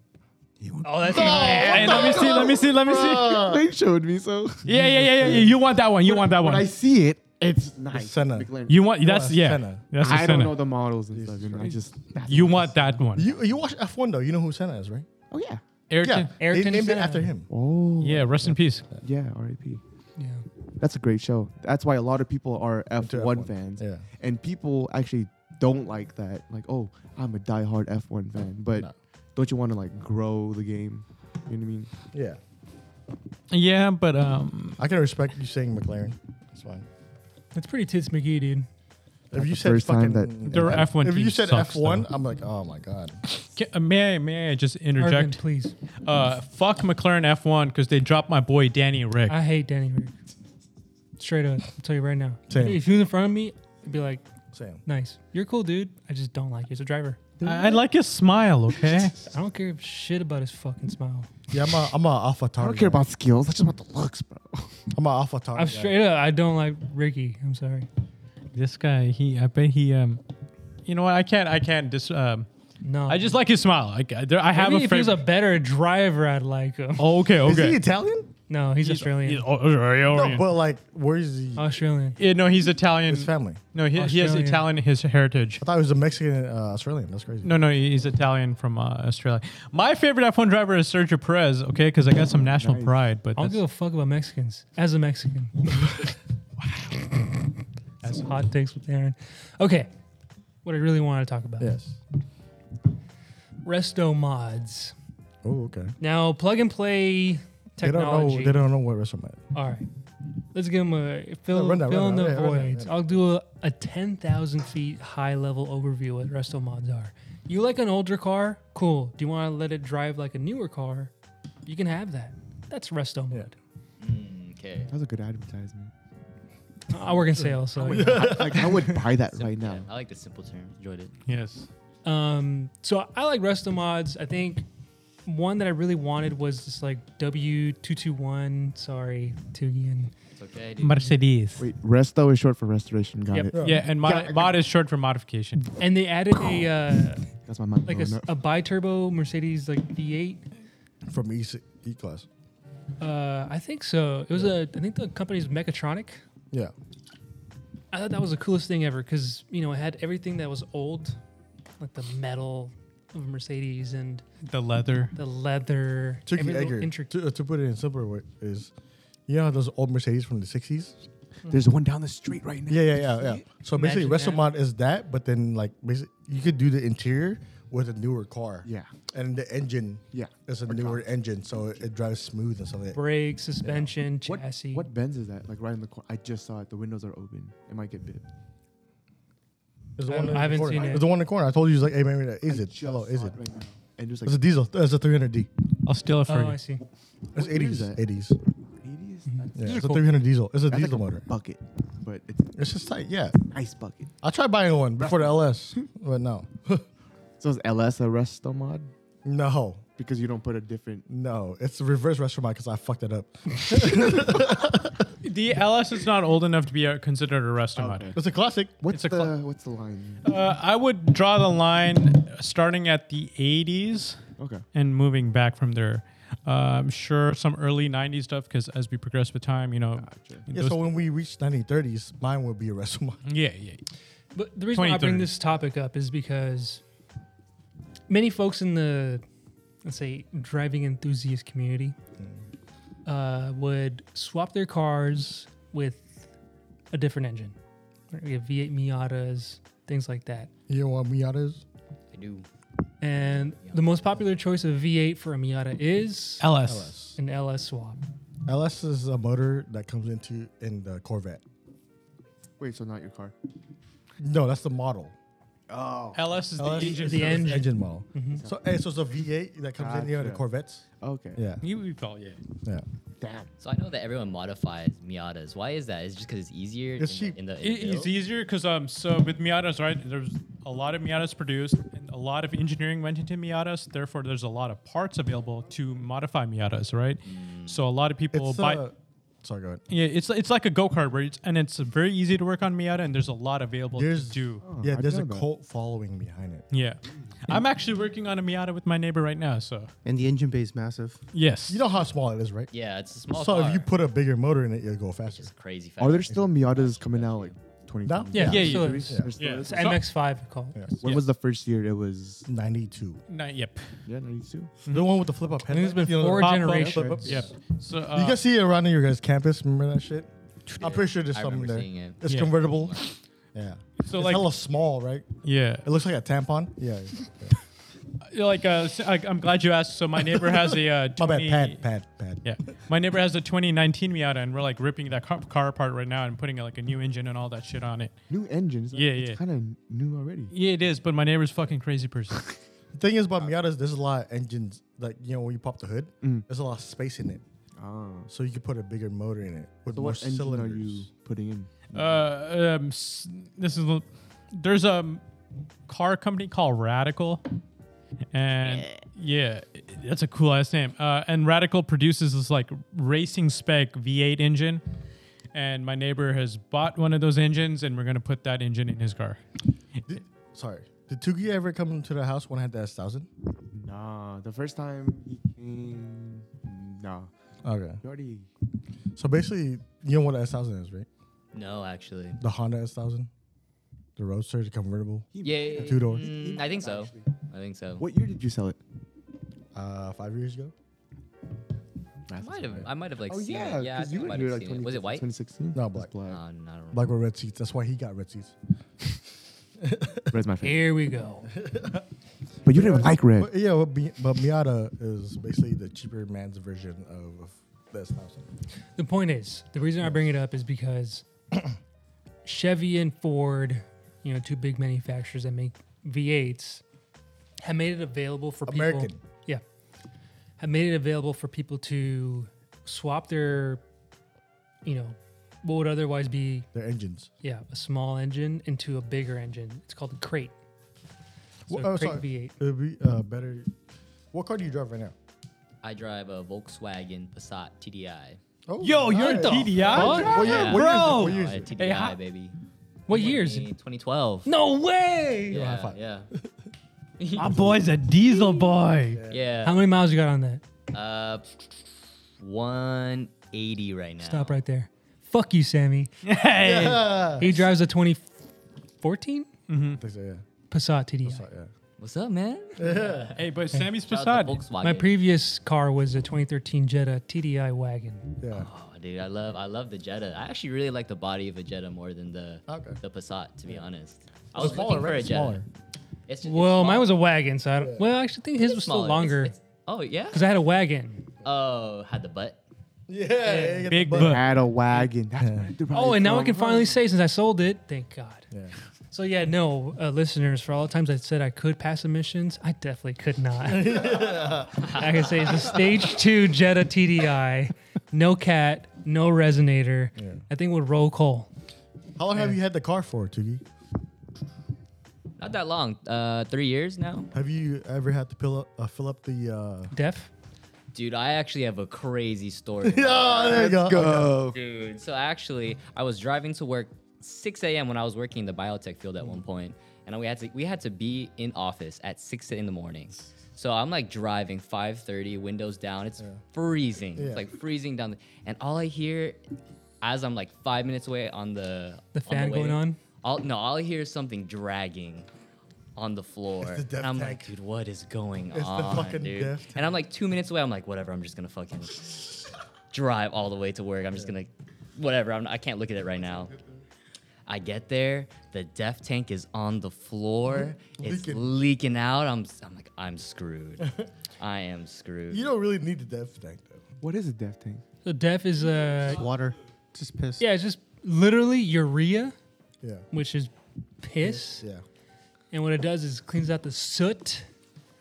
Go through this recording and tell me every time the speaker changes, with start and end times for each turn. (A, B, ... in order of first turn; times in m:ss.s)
0:00.6-0:08.8 A
0:00.8-0:02.2 B
0:01.1-0:03.5 C
0:01.1-0:03.6 D
0:04.6-0:06.7 C
0:07.9-0:09.9 D
0:08.7-0:10.6 C
0:10.0-0:13.2 A
0:11.1-0:11.8 D
0:12.2-0:13.3 C
0:13.1-0:15.1 D
0:15.3-0:15.6 A
0:15.9-0:16.3 C
0:16.0-0:17.5 D
0:16.4-0:17.3 B
0:17.5-0:19.8 A
0:18.0-0:18.9 C
0:20.2-0:20.4 B
0:20.8-0:31.9 A
0:23.0-0:24.0 D
0:32.1-0:32.4 D
0:33.5-0:34.8 C
0:34.8-0:36.9 D
0:37.5-0:38.7 B
0:39.3-0:43.2 D
0:39.3-0:40.8 A
0:40.5-0:42.1 C
0:43.4-0:45.4 C
0:45.0-0:45.7 B
0:46.0-0:49.4 C
0:49.3-0:50.2 B
0:51.2-0:54.2 B
0:52.5-0:52.8 D
0:54.5-0:54.8 D
0:54.8-0:57.2 B
0:57.4-0:57.8 A
0:57.4-0:59.2 C
0:59.2-1:01.3 B
1:01.5-1:03.0 D
1:02.6-1:04.8 A
1:04.9-1:06.0 D
1:05.5-1:07.9 B
1:08.5-1:10.2 C
1:10.8-1:12.5 C
1:12.8-1:13.3 B
1:13.1-1:15.2 C
1:14.5-1:17.1 B
1:17.0-1:17.8 C
1:17.4-1:18.3 D
1:18.5-1:19.4 B
1:18.8-1:20.5 C
1:20.1-1:21.6 D
1:21.6-1:22.2 B
1:22.2-1:25.6 C
1:23.1-1:23.6 D
1:23.9-1:24.6 B
1:25.6-1:27.5 D
1:27.4-1:33.6 C
1:32.4-1:33.0 A
1:33.4-1:35.9 B
1:36.9-1:37.5 B
1:38.0-1:39.9 B
1:40.6-1:41.8 B
1:41.6-1:42.0 D
1:43.6-1:44.9 B
1:45.4-1:45.9 D
1:46.0-1:48.6 B
1:47.8-1:49.4 D
1:49.5-1:49.9 B
1:50.5-2:01.1 B
1:51.5-1:53.1 D
2:01.6-2:03.5 B
2:04.0-2:04.9 E
2:04.9-2:05.9 A
2:06.9-2:08.7 B
2:07.4-2:08.9 D
2:07.9-2:09.9 A
2:09.3-2:11.1 E
2:11.3-2:11.7 C
2:12.0-2:14.7 B
2:15.2-2:20.1 B
2:20.4-2:21.1 E
2:20.8-2:21.7 C
2:21.6-2:24.5 A
2:23.5-2:23.8 D
2:23.6-2:25.7 C
2:25.8-2:27.3 B
2:27.4-2:28.3 A
2:27.8-2:30.4 B
2:31.1-2:32.3 D
2:33.0-2:36.2 B
2:37.9-2:41.2 B
2:41.8-2:44.2 B
2:44.4-2:45.1 C
2:45.1-2:47.1 B
2:46.3-2:48.7 D
2:49.3-2:51.0 D
2:51.5-2:53.4 A
2:52.7-3:03.0 D
2:53.7-2:54.5 B
2:58.6-2:58.9 A
3:00.1-3:01.0 A
3:02.9-3:04.9 B
3:03.6-3:04.4 D
3:04.7-3:08.2 A
3:10.0-3:13.4 D
3:10.1-3:11.1 B
3:10.7-3:10.9 A
3:12.5-3:14.4 A
3:14.2-3:15.5 D
3:15.8-3:16.6 C
3:16.3-3:16.8 B
3:17.3-3:18.4 D
3:17.4-3:18.0 A
3:18.8-3:19.8 A
3:19.3-3:20.0 B
3:19.6-3:21.2 D
3:20.7-3:22.6 A
3:22.5-3:23.4 D
3:23.4-3:24.1 A
3:24.2-3:26.8 D
3:25.0-3:25.3 A
3:27.4-3:28.9 A
3:29.2-3:29.8 D
3:30.0-3:31.0 A
3:31.1-3:35.1 D
3:35.2-3:38.1 C
3:37.8-3:38.2 A
3:38.2-3:38.8 D
3:38.8-3:40.2 A
3:38.9-3:39.3 C
3:40.2-3:44.2 C
3:44.4-3:44.6 A
3:44.7-3:50.9 C
3:50.0-3:50.4 A
3:50.5-3:53.2 D
3:53.2-3:53.8 C
3:54.3-3:56.8 B
3:54.7-3:55.3 C
3:58.1-3:59.2 B
3:59.8-4:02.0 B
4:03.0-4:06.3 B
4:06.9-4:07.6 B
4:08.1-4:10.5 B
4:10.7-4:11.6 D
4:12.1-4:12.4 E
4:13.0-4:16.5 B
4:13.2-4:14.2 E
4:16.4-4:16.9 C
4:16.6-4:17.2 D
4:17.2-4:18.0 B
4:18.4-4:21.4 D
4:22.6-4:23.3 A
4:24.2-4:25.1 D
4:25.7-4:26.2 A
4:26.1-4:27.6 C
4:26.6-4:30.8 D
4:26.8-4:28.4 B
4:29.8-4:30.4 A
4:31.0-4:31.4 A
4:31.4-4:31.6 D
4:31.6-4:32.4 C
4:33.2-4:33.5 A
4:33.6-4:38.1 E
4:37.0-4:37.4 D
4:37.6-4:48.8 C
4:47.2-4:47.8 E
4:48.3-4:49.8 D
4:49.9-4:54.6 C
4:53.9-4:56.6 D
4:54.6-4:55.5 A
4:56.7-4:59.9 C
5:00.0-5:01.2 F
5:01.3-5:01.8 C
5:01.7-5:02.7 D
5:02.7-5:03.9 E
5:03.3-5:05.5 D
5:05.3-5:07.6 E
5:06.0-5:10.0 A
5:08.0-5:09.3 D
5:08.3-5:10.8 B
5:08.4-5:10.0 C
5:11.0-5:12.5 A
5:12.4-5:13.2 D
5:13.3-5:13.9 C
5:14.0-5:14.7 A
5:14.9-5:17.5 D
5:15.7-5:17.3 B
5:16.3-5:18.4 C
5:18.1-5:25.3 D
5:20.7-5:23.0 E
5:22.2-5:22.5 C
5:24.0-5:24.5 C
5:25.4-5:25.8 C
5:25.8-5:27.6 D
5:28.3-5:31.8 C
5:30.3-5:32.5 D
5:32.4-5:38.2 C
5:38.3-5:40.5 A
5:38.9-5:39.4 C
5:40.5-5:42.5 C
5:42.9-5:47.4 D
5:47.8-5:48.3 A
5:48.3-5:51.1 D
5:49.9-5:52.2 A
5:51.9-5:55.2 C
5:55.9-5:57.4 C
5:58.3-6:04.8 C
5:58.6-5:58.9 E
6:05.5-6:09.4 C
6:10.1-6:13.3 D
6:13.7-6:17.3 A
6:17.6-6:18.0 D
6:18.0-6:18.5 A
6:19.2-6:21.1 D
6:21.5-6:22.4 E
6:22.4-6:23.3 D
6:24.2-6:26.3 D
6:25.3-6:27.3 A
6:25.4-6:28.0 E
6:28.0-6:28.8 A
6:29.7-6:30.7 D
6:32.3-6:36.4 A
6:32.4-6:35.3 E
6:35.7-6:36.1 D
6:36.2-6:37.1 E
6:36.9-6:38.5 D
6:39.8-6:40.3 D
6:40.3-6:40.9 A
6:40.6-6:41.5 B
6:41.5-6:42.0 D
6:42.6-6:43.5 A
6:42.7-6:48.5 D
6:49.0-6:51.2 B
6:52.4-6:56.8 B
6:57.6-6:59.6 B
6:58.6-6:59.2 D
7:00.6-7:03.8 B
7:04.8-7:06.7 B
7:06.7-7:07.3 D
7:07.4-7:10.5 B
7:11.7-7:13.7 D
7:11.7-7:12.6 B
7:14.3-7:15.1 D
7:15.8-7:18.4 E
7:18.7-7:21.7 D
7:18.8-7:22.2 C
7:19.1-7:20.6 B
7:20.3-7:22.5 E
7:23.1-7:23.7 B
7:23.1-7:24.5 E
7:24.4-7:25.6 B
7:25.5-7:26.3 E
7:25.5-7:26.4 D
7:27.2-7:27.6 E
7:27.4-7:29.2 C
7:27.4-7:27.7 D
7:29.1-7:29.4 D
7:29.3-7:29.8 E
7:29.6-7:30.6 B
7:30.9-7:31.4 E
7:32.4-7:34.6 E
7:34.2-7:36.1 B
7:36.2-7:37.3 C
7:36.6-7:37.5 D
7:37.4-7:38.3 B
7:39.0-7:39.5 B
7:39.7-7:40.0 C
7:40.0-7:40.4 D
7:40.7-7:41.4 B
7:41.2-7:41.7 D
7:42.0-7:43.4 E
7:42.8-7:43.3 D
7:43.4-7:44.6 C
7:44.0-7:45.1 E
7:44.8-7:48.3 B
7:48.4-7:48.7 D
7:48.5-7:55.6 E
7:52.7-7:53.0 D
7:54.5-7:55.6 D
7:56.3-7:57.1 E
7:56.4-7:59.5 B
7:58.6-8:00.4 E
8:00.3-8:01.2 B
8:01.4-8:02.6 E
8:03.1-8:04.4 D
8:03.4-8:03.9 B
8:03.9-8:04.5 C
8:04.1-8:07.0 A
8:05.4-8:05.7 D
8:05.9-8:08.5 B
8:09.1-8:21.5 B
8:13.6-8:16.0 D
8:14.8-8:15.2 E
8:20.1-8:20.4 D
8:22.2-8:23.6 D
8:25.4-8:27.3 E
8:27.3-8:29.9 D
8:29.9-8:30.3 B
8:30.9-8:33.9 E
8:32.8-8:34.3 D
8:33.5-8:34.6 A
8:34.5-8:49.4 E
8:47.1-8:47.5 D
8:50.0-8:55.3 E
8:52.1-8:53.0 B
8:56.0-9:06.5 E
8:56.6-8:57.5 D
8:58.5-9:00.0 D
9:07.4-9:15.5 E
9:10.4-9:11.6 D
9:15.3-9:16.8 D
9:17.0-9:17.8 A
9:18.0-9:19.2 B
9:19.1-9:20.4 F
9:20.4-9:22.4 B
9:23.1-9:24.6 B
9:24.2-9:24.8 D
9:25.5-9:27.5 B